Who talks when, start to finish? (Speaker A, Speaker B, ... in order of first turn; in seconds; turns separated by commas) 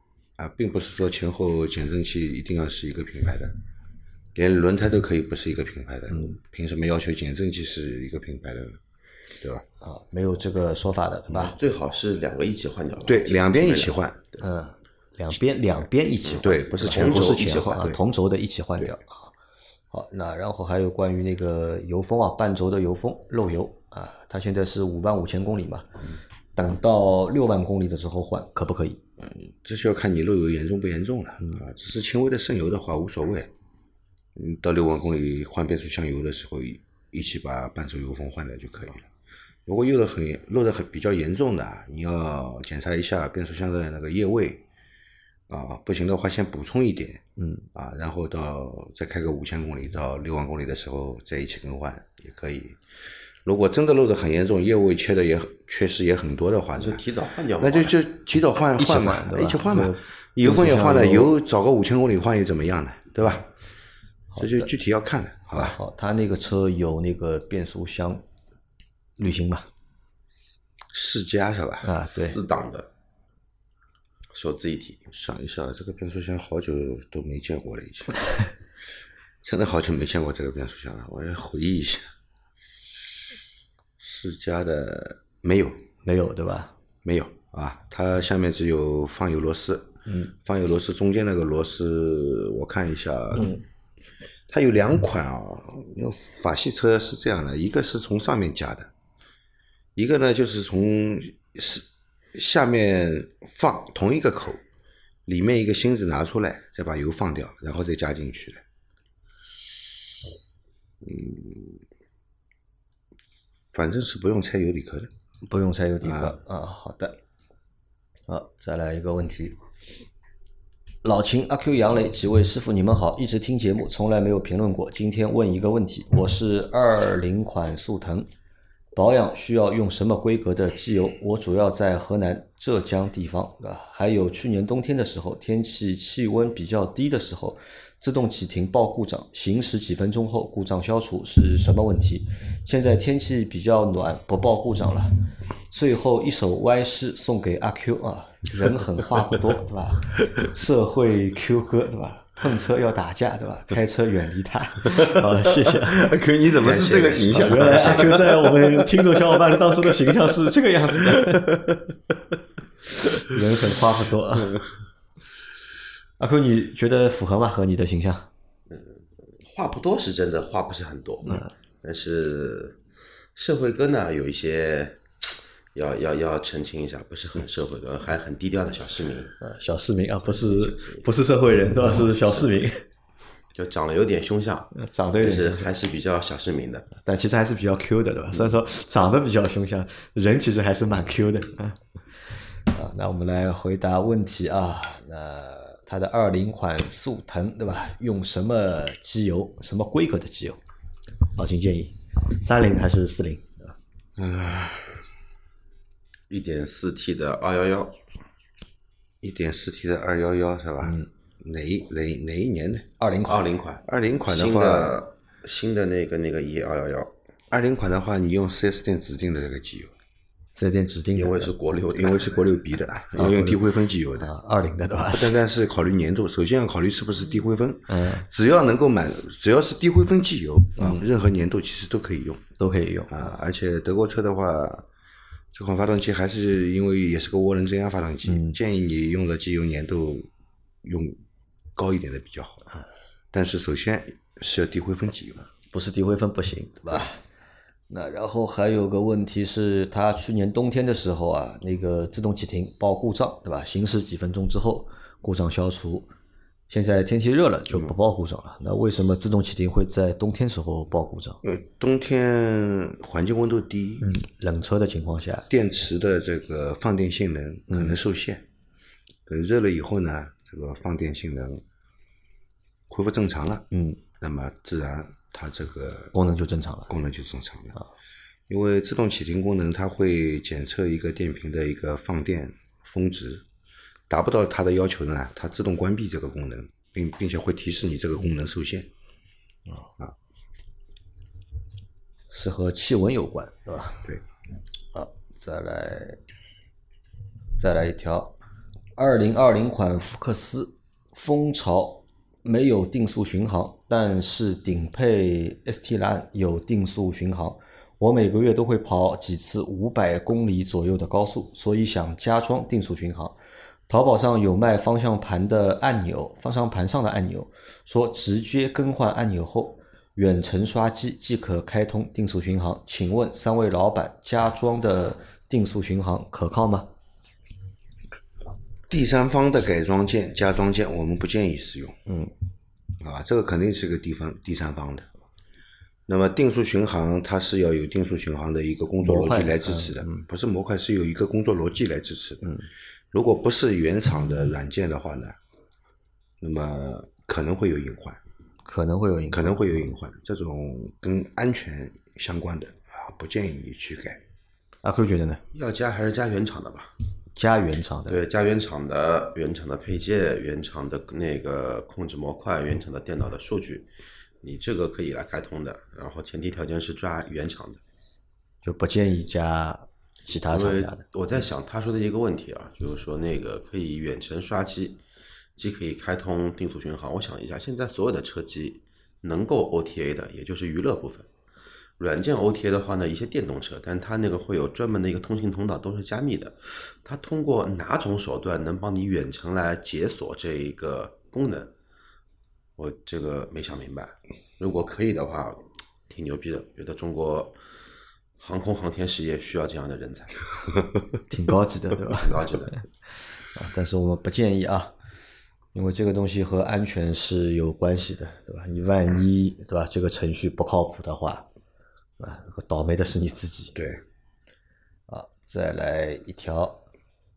Speaker A: 0.4-3.5, Speaker A: 4.3-8.8, Speaker B: 6.1-6.4, Speaker B: 9.8-11.6, Speaker C: 11.5-14.0, Speaker A: 13.1-14.4, Speaker B: 14.4-19.3, Speaker C: 16.3-17.9, Speaker A: 16.4-18.0, Speaker B: 19.9-25.9, Speaker B: 26.6-29.0, Speaker A: 29.2-33.5, Speaker A: 34.4-39.1, Speaker A: 39.7-44.6, Speaker A: 45.5-52.8, Speaker B: 47.4-47.7, Speaker A: 53.5-57.0, Speaker C: 56.8-58.0, Speaker A: 57.6-63.5, Speaker B: 58.8-61.3, Speaker B: 64.3-64.7, Speaker A: 64.4-65.8, Speaker B: 65.5-68.2, Speaker B: 69.2-69.7, Speaker A: 70.9-72.0, Speaker B: 71.8-72.4, Speaker C: 72.1-72.9, Speaker C: 74.3-75.1, Speaker A: 75.1-78.4, Speaker A: 79.4-82.1, Speaker A: 84.0-85.8, Speaker B: 86.0-86.8, Speaker A: 87.0-93.5, Speaker B: 90.1-90.3, Speaker B: 93.4-93.6, Speaker A: 94.5-98.9, Speaker A: 100.0-104.6, Speaker A: 105.3-108.6, Speaker A: 111.0-111.8, Speaker A: 113.7-115.1, Speaker B: 115.5-117.2, Speaker A: 116.0-116.4, Speaker B: 118.3-119.6, Speaker B: 121.0-128.3, Speaker B: 128.9-156.1, Speaker A: 154.9-158.5, Speaker C: 156.5-158.3, Speaker B: 157.3-161.5, Speaker B: 163.2-164.6, Speaker B: 166.2-168.3, Speaker C: 168.7-172.8, Speaker C: 173.4-179.4, Speaker B: 179.4-182.8, Speaker C: 180.4-181.0, Speaker C: 182.0-182.4, Speaker C: 183.5-186.9, Speaker B: 184.8-185.7, Speaker B: 187.0-191.8, Speaker B: 192.7-200.6, Speaker B: 201.4-203.8, Speaker A: 204.2-205.0, Speaker C: 206.3-208.0, Speaker A: 209.2-212.9, Speaker B: 210.8-211.1, Speaker B: 213.0-213.4, Speaker C: 213.2-217.1, Speaker A: 213.9-215.0, Speaker A: 217.5-219.9, Speaker B: 220.6-221.5, Speaker C: 221.2-222.5, Speaker A: 222.0-224.3, Speaker B: 223.1-223.7, Speaker B: 224.2-225.3, Speaker A: 225.0-232.4, Speaker B: 227.9-228.3, Speaker B: 230.8-231.1, Speaker B: 232.6-233.3, Speaker A: 233.1-234.9, Speaker A: 235.5-240.3, Speaker B: 238.3-238.6, Speaker A: 240.8-241.2, Speaker A: 241.8-242.7, Speaker A: 243.3-245.5, Speaker B: 245.7-247.2, Speaker B: 247.9-256.1, Speaker B: 256.7-261.4, Speaker A: 261.4-264.1, Speaker B: 264.0-265.5, Speaker A: 265.5-268.4, Speaker B: 267.7-268.0, Speaker A: 269.3-271.6, Speaker A: 272.9-273.7, Speaker B: 273.7-274.0, Speaker A: 274.2-276.1, Speaker B: 276.1-276.9, Speaker A: 276.9-277.8, Speaker A: 278.5-283.4, Speaker A: 284.1-288.9, Speaker B: 292.3-294.1, Speaker B: 294.9-296.2, Speaker B: 297.6-298.4, Speaker B: 299.0-313.4, Speaker B: 313.9-326.9, Speaker A: 328.9-332.0, Speaker B: 332.1-332.3, Speaker A: 333.0-335.1, Speaker A: 336.1-342.5, Speaker B: 339.0-340.2, Speaker A: 343.1-345.4, Speaker A: 346.4-348.2, Speaker B: 348.6-349.9, Speaker A: 349.3-354.2, Speaker B: 354.8-355.4, Speaker C: 355.5-356.9, Speaker B: 357.4-358.2, Speaker C: 358.1-363.9, Speaker C: 364.4-367.8, Speaker B: 368.6-371.0, Speaker C: 370.5-375.0, Speaker C: 375.6-381.3, Speaker C: 382.0-391.7, Speaker C: 392.8-397.6, Speaker C: 398.4-400.5, Speaker B: 401.3-402.8, Speaker C: 402.1-402.7, Speaker B: 403.6-404.9, Speaker B: 405.7-411.5, Speaker B: 412.2-413.8, Speaker A: 413.8-414.0, Speaker B: 415.1-416.9